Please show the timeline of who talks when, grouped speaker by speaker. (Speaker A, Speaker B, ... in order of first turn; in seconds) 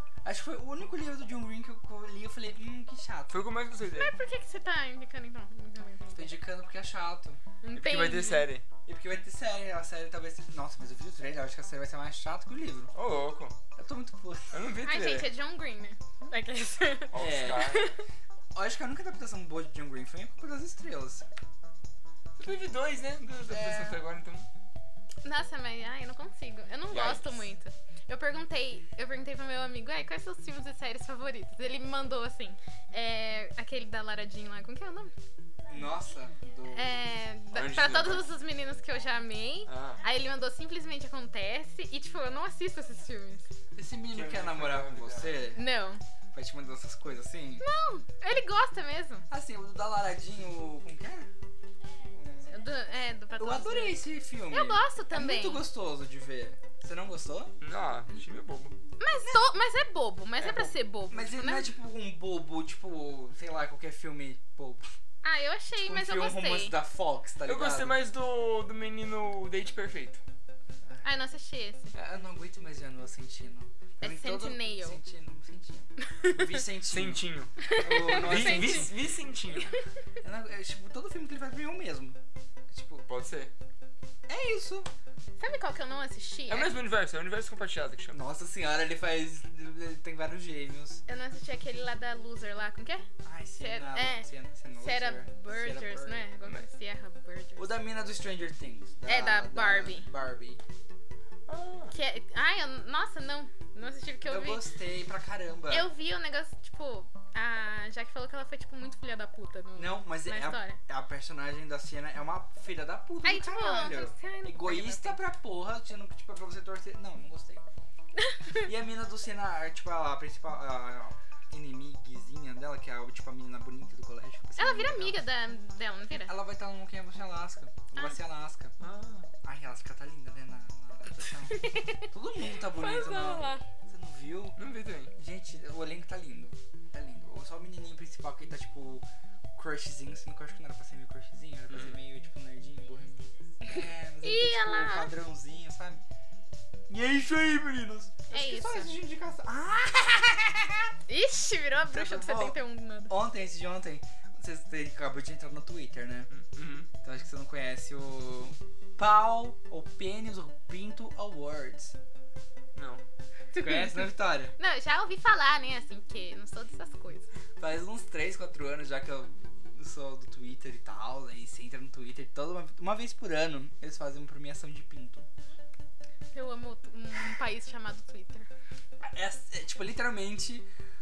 Speaker A: 0.2-3.4, 6.1-7.4, 8.8-12.9, 13.7-14.7, 17.1-17.8, 18.5-21.3, 23.5-24.0, 35.6-37.0, 43.7-45.7, 46.3-47.6, 49.3-51.3, 52.1-52.6, 53.4-57.6, 61.1-64.8, 65.8-68.0, 71.9-78.9, 80.2-82.2, 82.7-83.1, 84.3-84.9, 88.1-91.0, 93.2-96.3, 97.6-100.6, 104.2-105.9, 109.7-117.7, 118.6-125.2, 126.2-128.7, 129.4-134.6, 135.1-146.0, 146.9-150.9, 151.9-152.6, 153.1-156.3, 157.0-162.0, 163.6-164.5, 167.6-175.3, 179.0-180.7
Speaker B: 3.3-4.1, 7.7-8.6, 12.9-13.6, 14.5-15.3, 17.1-17.9, 22.3-24.5, 26.9-27.4, 37.5-38.3, 39.6-40.0, 44.1-45.5, 57.6-58.8, 60.4-60.7, 67.4-70.2, 76.9-79.8, 83.1-83.5, 86.5-88.2, 101.5-101.9, 128.8-129.3, 134.6-135.1, 141.7-142.0, 156.3-156.9, 162.7-163.0
Speaker C: 4.0-6.4, 7.6-8.5, 14.8-17.9, 25.2-35.1, 36.7-43.4, 45.5-46.0, 47.6-49.2, 52.5-55.6, 59.0-61.7, 65.2-66.8, 71.0-71.9, 74.0-75.0, 76.0-76.6, 77.6-79.0, 79.6-79.8, 85.4-86.8, 91.1-93.0, 93.6-97.7, 99.1-100.1, 101.9-104.7, 105.7-110.8, 113.2-115.2, 118.2-118.6, 124.6-126.3, 131.2-133.6, 143.7-145.1, 148.3-148.9, 151.1-153.1, 163.5-167.3, 176.3-178.5